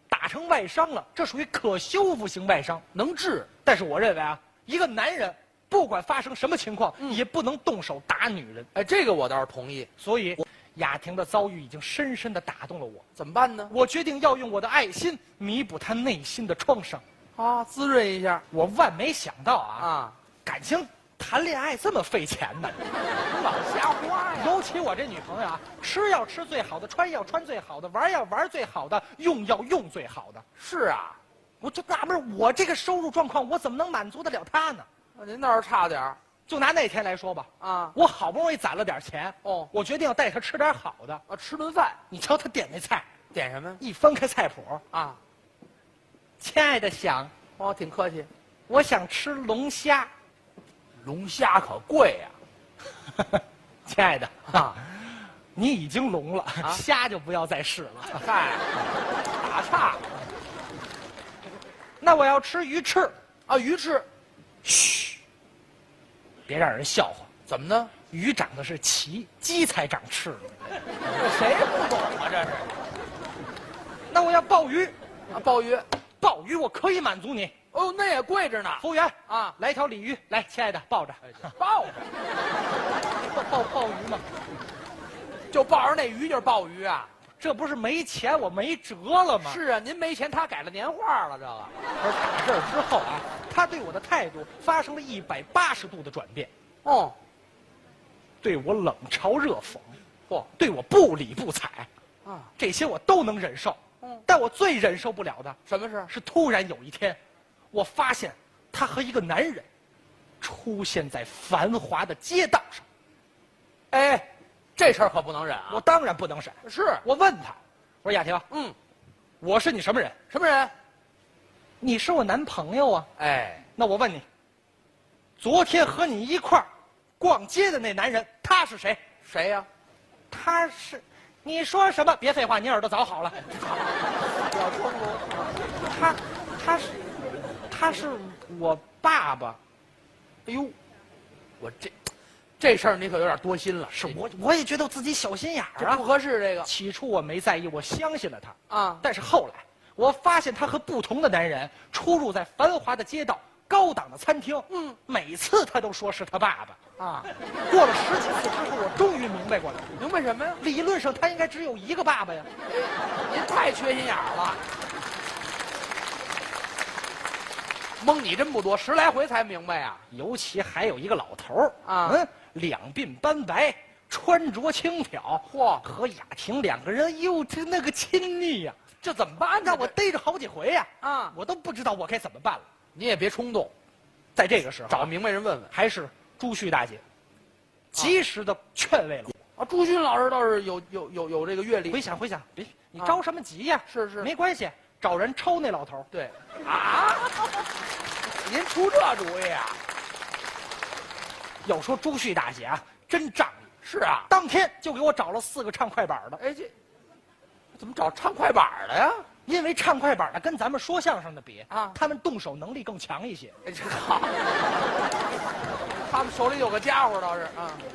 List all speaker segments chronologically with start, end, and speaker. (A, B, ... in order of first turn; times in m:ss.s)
0:00.1-0:02.8 A
0:02.9-0:03.5 B
0:03.6-0:08.7 A
0:08.7-0:09.9 B
0:10.0-0:13.0 A
0:13.2-0:13.7 B
0:13.7-0:17.0 A
0:17.4-0:18.4 B
0:18.5-0:19.9 A
0:19.8-0:20.2 B
0:20.4-0:22.9 A
0:22.9-0:24.6 B
0:24.4-0:30.4 A
0:30.6-0:31.2 B
0:31.6-0:34.9 A
0:35.1-0:36.2 B
0:36.5-0:41.2 A
0:37.6-0:38.0 B
0:39.4-0:39.7 B
0:41.3-0:42.0 B
0:42.1-0:43.1 A
0:43.3-0:43.8 B
0:43.8-0:44.8 A
0:44.9-0:45.2 B
0:46.4-0:47.3 A
0:47.6-0:48.3 B
0:48.7-0:50.1 A
0:51.0-0:52.4 B
0:53.1-0:58.2 A
0:54.5-0:54.8 B
0:58.1-1:00.1 B
1:02.0-1:03.1 A
1:03.5-1:04.1 B
1:04.7-1:05.0 A
1:06.4-1:07.3 A
1:07.5-1:07.9 B
1:08.1-1:10.8 A
1:11.1-1:12.8 B
1:14.1-1:14.9 A
1:15.3-1:15.9 B
1:16.2-1:17.5 A
1:17.7-1:19.6 B
1:18.8-1:21.5 A
1:21.3-1:22.1 B
1:23.2-1:24.2 A
1:25.5-1:27.1 B
1:27.4-1:29.6 A
1:29.4-1:31.8 B
1:32.0-1:36.5 A
1:36.8-1:37.2 B
1:38.4-1:40.0 A
1:40.6-1:41.9 A
1:42.2-1:42.5 B
1:42.6-1:45.6 A
1:45.6-1:46.1 B
1:46.1-1:47.2 A
1:47.7-1:49.7 A
1:50.4-1:52.8 A
1:53.9-1:55.8 B
1:55.7-1:58.4 A
1:56.6-1:57.0 B
1:58.5-1:58.8 B
1:59.4-2:00.2 A
2:00.3-2:00.7 B
2:01.8-2:03.1 A
2:03.2-2:03.6 B
2:03.8-2:04.2 A
2:05.4-2:06.7 A
2:07.2-2:09.0 A
2:09.2-2:09.7 B
2:10.3-2:13.5 A
2:13.4-2:15.6 B
2:15.8-2:17.0 A
2:17.7-2:19.6 A
2:20.4-2:20.8 B
2:21.6-2:24.2 B
2:23.9-2:26.0 A
2:25.8-2:26.7 B
2:26.6-2:36.8 A
2:28.7-2:29.0 B
2:34.7-2:35.0 B
2:37.0-2:37.3 B
2:37.7-2:39.9 A
2:40.0-2:40.6 B
2:40.6-2:42.5 A
2:42.6-2:44.6 B
2:48.0-2:50.0 B
2:50.1-2:58.8 A
2:51.8-2:52.2 B
2:55.5-2:55.8 B
2:59.0-2:59.9 B
2:59.6-3:02.6 A
3:01.0-3:01.4 B
3:02.9-3:03.7 B
3:04.3-3:05.1 A
3:04.9-3:05.7 B
3:05.7-3:07.0 A
3:07.9-3:09.3 A
3:09.6-3:12.0 B
3:11.9-3:16.1 A
3:13.9-3:14.3 B
3:16.1-3:17.7 B
3:18.2-3:19.8 B
3:21.6-3:23.7 A
3:23.8-3:24.3 B
3:24.3-3:26.4 A
3:26.4-3:26.7 B
3:27.7-3:29.3 B
3:29.4-3:33.5 A
3:31.7-3:32.0 B
3:33.6-3:34.6 B
3:35.9-3:37.8 B